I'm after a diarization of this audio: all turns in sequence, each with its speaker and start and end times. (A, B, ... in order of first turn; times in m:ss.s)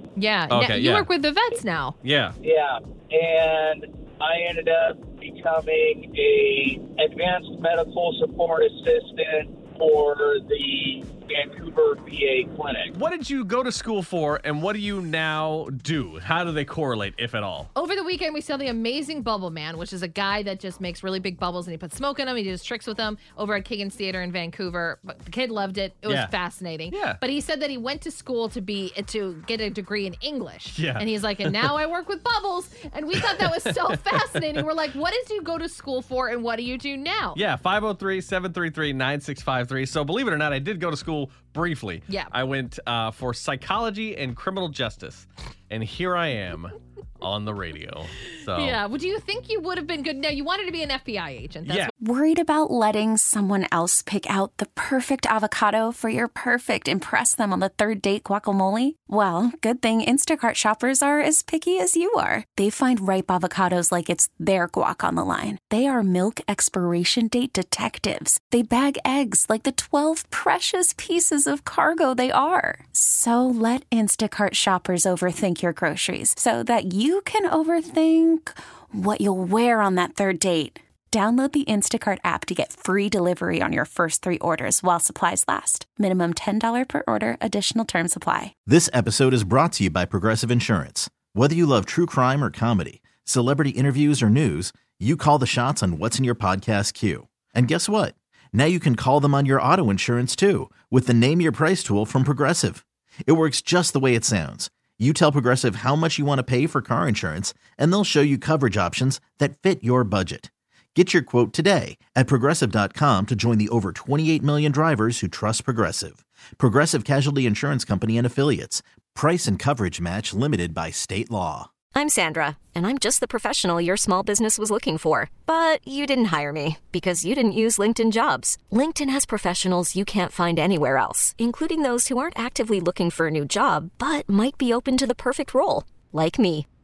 0:00.2-0:02.0 A
0:00.5-0:01.1 B
0:02.0-0:02.3 B
0:02.4-0:12.9 C
0:12.9-0:17.7 B
0:17.7-0:37.4 A
0:26.9-0:27.2 B
0:30.7-0:31.8 B
0:33.2-0:34.7 B
0:37.4-0:48.8 B
0:42.1-0:42.3 A
0:48.5-0:51.9 A
0:51.7-0:51.9 B
0:52.0-1:28.5 D
1:28.6-2:01.7 E
2:01.9-2:16.7 F